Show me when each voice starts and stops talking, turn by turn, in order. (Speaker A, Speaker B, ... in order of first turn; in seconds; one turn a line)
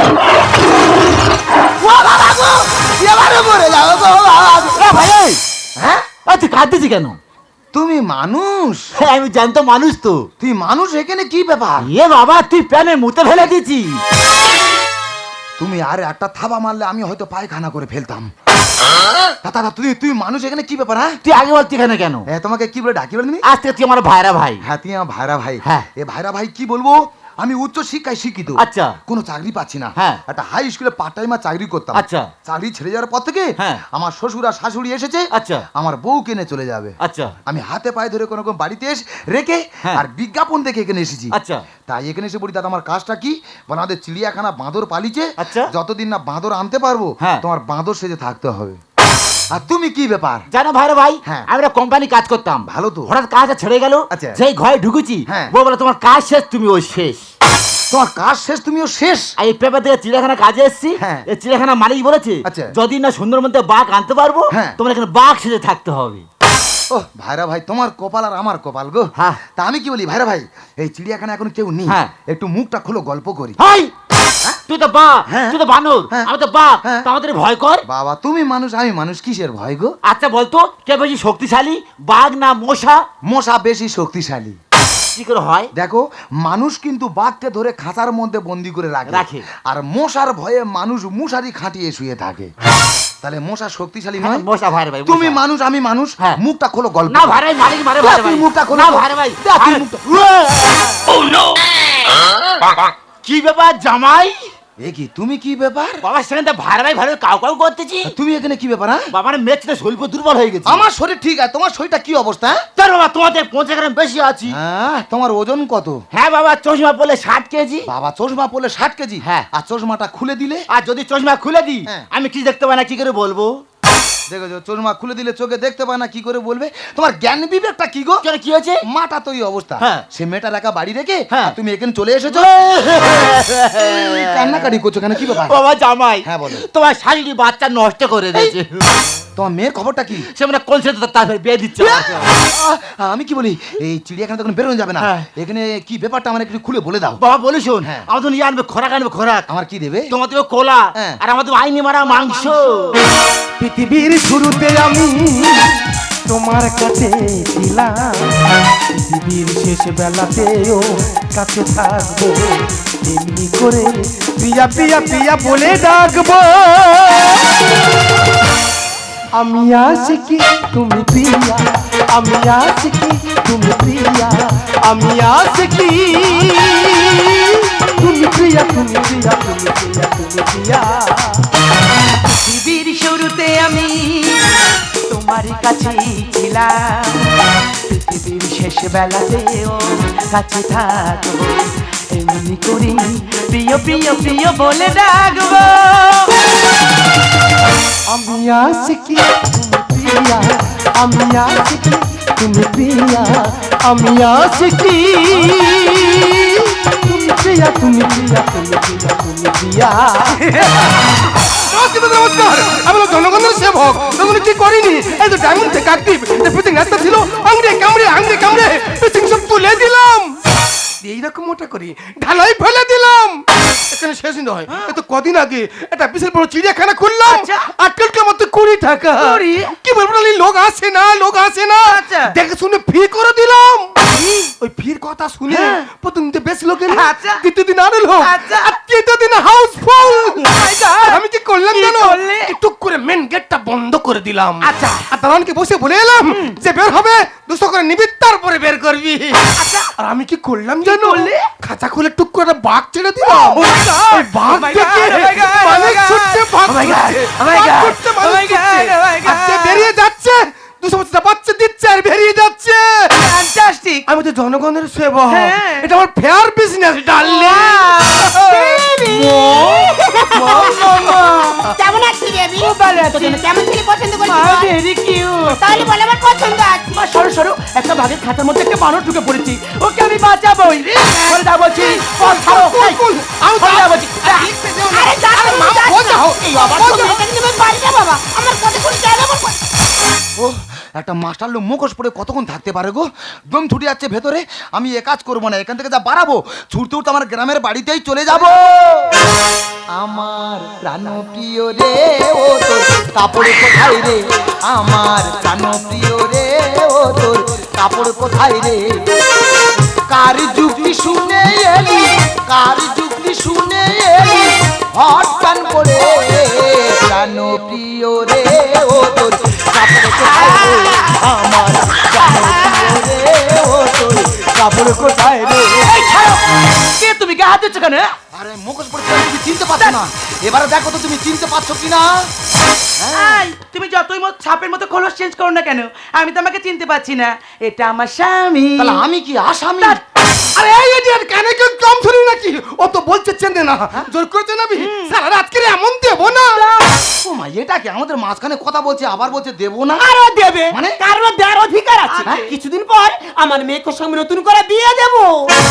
Speaker A: 1.8-4.9
Speaker B: 4.5-5.4
Speaker A: 5.8-6.1
Speaker B: 6.3-7.2
Speaker A: 7.7-8.9
Speaker B: 8.9-10.3
Speaker A: 10.4-11.9
Speaker B: 11.8-14.0
Speaker A: 15.6-18.3
Speaker A: 19.4-21.2
Speaker B: 21.2-22.3
Speaker A: 22.3-23.4
Speaker B: 23.4-24.6
Speaker A: 24.6-41.4
Speaker B: 28.6-29.0
Speaker B: 31.9-32.3
Speaker B: 33.6-33.8
Speaker B: 35.3-35.7
Speaker B: 37.0-37.4
Speaker B: 41.3-41.6
Speaker A: 41.9-48.8
Speaker B: 45.4-45.7
Speaker A: 49.5-50.5
Speaker B: 50.5-57.2
Speaker A: 52.6-53.1
Speaker A: 54.1-54.4
Speaker A: 55.3-55.5
Speaker A: 57.9-59.3
Speaker B: 59.4-66.3
Speaker A: 61.0-61.3
Speaker A: 62.5-62.8
Speaker A: 64.5-64.8
Speaker A: 66.9-73.6
Speaker B: 69.2-69.4
Speaker B: 71.9-72.1
Speaker B: 73.6-73.9
Speaker B: 74.7-77.8
Speaker A: 75.3-75.6
Speaker A: 77.9-80.0
Speaker B: 80.0-83.0
Speaker A: 83.3-84.6
Speaker B: 85.2-85.7
Speaker A: 85.8-92.5
Speaker B: 89.1-89.5
Speaker A: 93.2-94.5
Speaker B: 94.2-95.4
Speaker A: 95.1-97.4
Speaker B: 97.1-101.5
Speaker A: 98.0-100.2
Speaker B: 103.2-104.5
Speaker A: 104.8-106.0
Speaker B: 106.0-108.1
Speaker A: 108.0-109.1
Speaker B: 109.1-110.9
Speaker A: 110.7-112.7
Speaker B: 112.8-114.6
Speaker A: 114.5-116.0
Speaker B: 116.1-117.9
Speaker A: 117.8-120.7
Speaker B: 119.2-119.5
Speaker B: 120.7-123.5
Speaker A: 124.3-128.2
Speaker B: 128.2-128.8
Speaker A: 128.9-132.5
Speaker B: 129.8-130.1
Speaker B: 132.3-134.7
Speaker A: 133.8-135.6
Speaker B: 135.3-138.9
Speaker A: 136.2-136.7
Speaker A: 139.3-140.3
Speaker B: 140.4-142.3
Speaker A: 141.8-147.2
Speaker B: 145.0-145.3
Speaker B: 147.2-149.5
Speaker A: 149.5-150.1
Speaker B: 150.1-153.0
Speaker C: 153.6-158.3
Speaker C: 158.9-167.7
Speaker C: 169.3-181.5
Speaker D: 182.2-187.3
Speaker D: 187.9-196.4
Speaker C: 198.1-211.0
Speaker C: 211.5-220.3
Speaker C: 221.0-234.1
Speaker D: 224.7-224.9
Speaker D: 227.3-227.7
Speaker D: 229.2-229.7
Speaker D: 231.9-232.3
Speaker D: 234.1-234.5
Speaker C: 234.6-263.3
Speaker D: 235.5-235.9
Speaker D: 236.9-237.4
Speaker D: 238.2-238.8
Speaker D: 240.0-242.6
Speaker D: 244.6-245.1
Speaker D: 246.3-246.6
Speaker D: 249.5-249.9
Speaker D: 250.8-251.5
Speaker D: 253.2-259.9
Speaker D: 263.1-264.0
Speaker C: 264.1-268.9
Speaker D: 265.3-265.9
Speaker D: 267.2-268.5
Speaker E: 268.5-270.8
Speaker D: 269.0-271.7
Speaker E: 271.8-274.7
Speaker D: 272.6-273.4
Speaker D: 274.2-275.9
Speaker E: 275.4-276.9
Speaker D: 276.9-283.0
Speaker C: 281.1-287.2
Speaker D: 283.6-284.5
Speaker E: 284.9-289.6
Speaker A: 290.4-299.1
Speaker A: 299.9-309.1
Speaker A: 310.1-326.0
Speaker D: 320.2-321.1
Speaker D: 322.3-322.8
Speaker D: 325.8-328.1
Speaker A: 328.3-332.3
Speaker A: 333.0-333.5
Speaker D: 333.1-339.0
Speaker A: 338.8-340.0
Speaker C: 340.5-346.6
Speaker D: 344.8-345.2
Speaker D: 346.4-347.0
Speaker A: 347.2-350.0
Speaker E: 350.0-355.5
Speaker A: 350.7-351.0
Speaker D: 352.1-352.5